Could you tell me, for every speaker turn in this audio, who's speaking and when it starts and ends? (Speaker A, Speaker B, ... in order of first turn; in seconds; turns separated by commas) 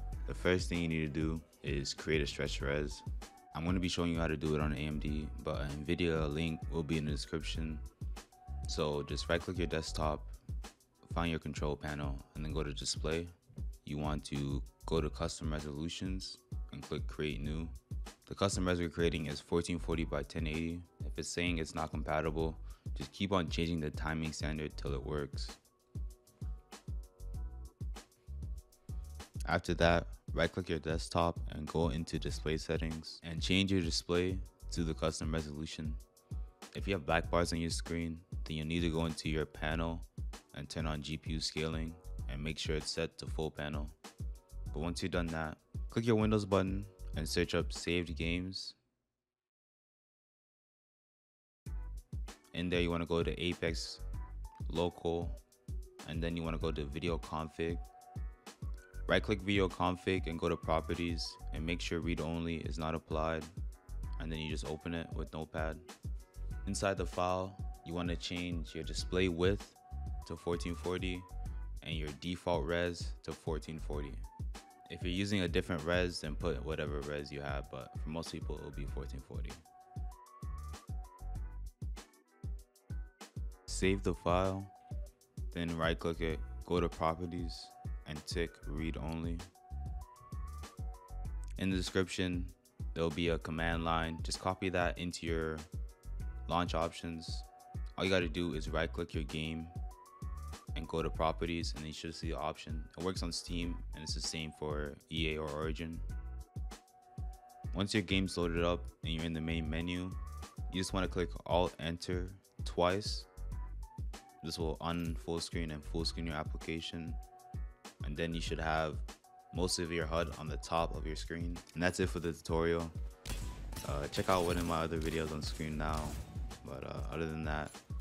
Speaker A: 0.3-7.8, Speaker A: 8.7-10.3, Speaker A: 11.0-13.3, Speaker A: 13.8-17.7, Speaker A: 18.3-25.6, Speaker A: 29.4-36.0, Speaker A: 36.7-44.0, Speaker A: 44.7-48.8, Speaker A: 52.5-54.0, Speaker A: 54.7-55.4, Speaker A: 56.0-57.9, Speaker A: 59.1-63.5, Speaker A: 64.2-65.9, Speaker A: 66.6-71.3, Speaker A: 71.8-74.2, Speaker A: 74.9-79.6, Speaker A: 83.7-84.7, Speaker A: 85.5-89.5, Speaker A: 91.6-95.7, Speaker A: 96.5-99.7, Speaker A: 100.7-106.0, Speaker A: 107.7-113.3, Speaker A: 114.4-117.2, Speaker A: 118.0-122.9, Speaker A: 123.8-127.8